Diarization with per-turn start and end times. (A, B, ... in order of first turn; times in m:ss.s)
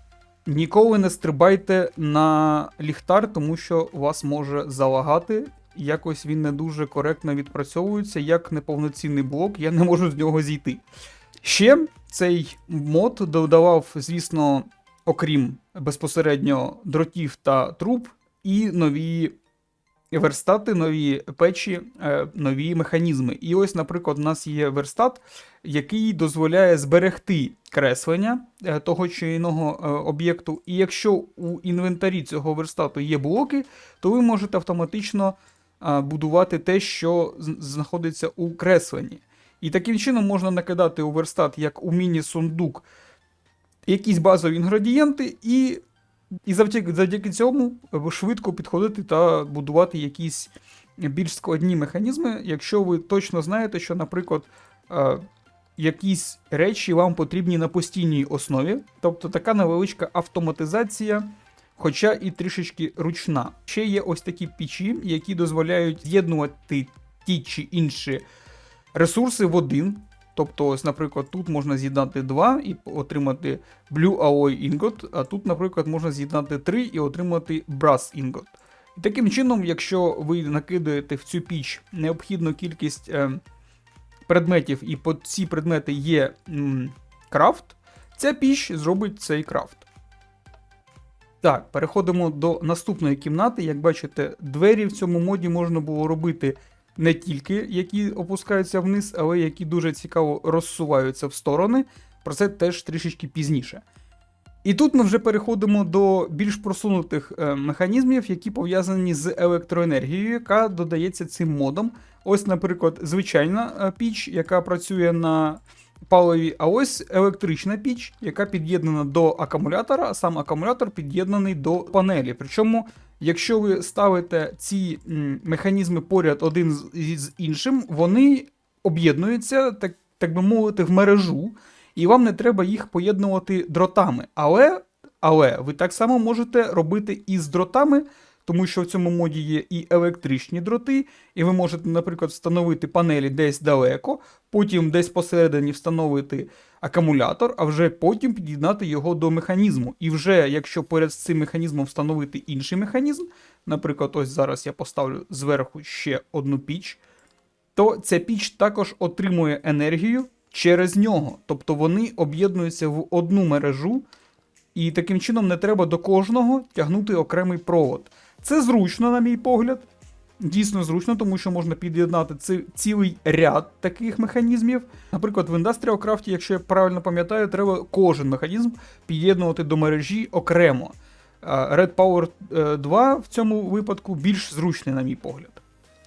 0:00.5-0:10.8 A
0:11.4-0:19.4 A
0:20.1-0:42.9 A
0:43.9-0:45.8 A
0:46.5-0:55.2 A
0:55.8-1:08.2 A
1:08.9-1:23.4 A
1:24.3-1:29.9 A
1:31.4-1:43.8 A
1:44.6-2:37.0 A
2:37.8-2:44.1 A
2:44.7-2:49.9 A
2:50.4-3:05.6 A